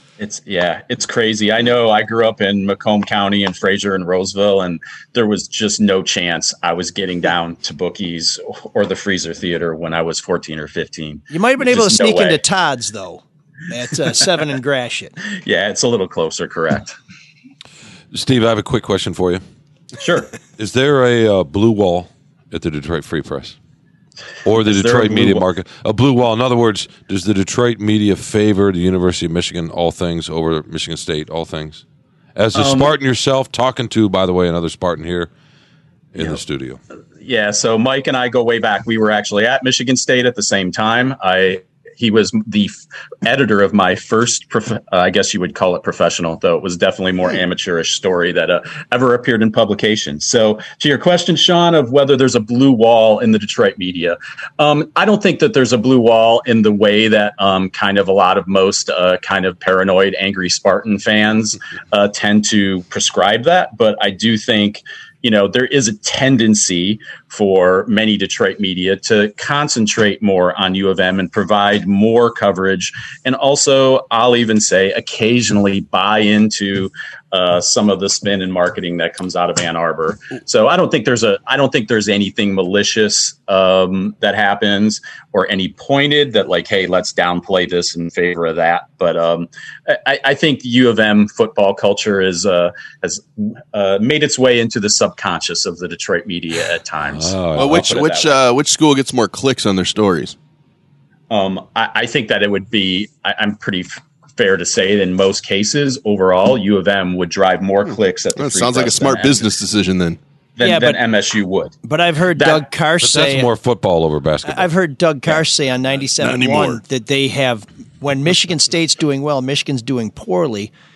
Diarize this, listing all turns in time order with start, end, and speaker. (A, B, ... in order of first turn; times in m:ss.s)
0:00.2-0:12.4 A
0:11.3-0:15.2 B
0:15.4-0:17.0 A
0:18.1-0:19.4 C
0:20.0-0:20.3 A
0:20.6-0:23.6 C
0:24.4-0:31.8 C
0:24.6-0:25.4 A
0:32.4-0:35.3 C
0:32.5-0:32.9 A
0:36.1-0:36.8 C
0:36.2-0:36.4 A
0:37.2-1:38.4 A
1:37.1-1:38.0 C
1:37.5-1:40.4 D
1:41.3-1:49.5 A
1:47.8-1:50.2 D
1:50.6-1:51.8 A
1:50.6-1:51.0 B
1:51.8-1:53.5 B
1:52.4-1:52.6 A
1:53.0-1:54.7 C
1:54.4-2:00.7 B
1:56.2-1:56.8 D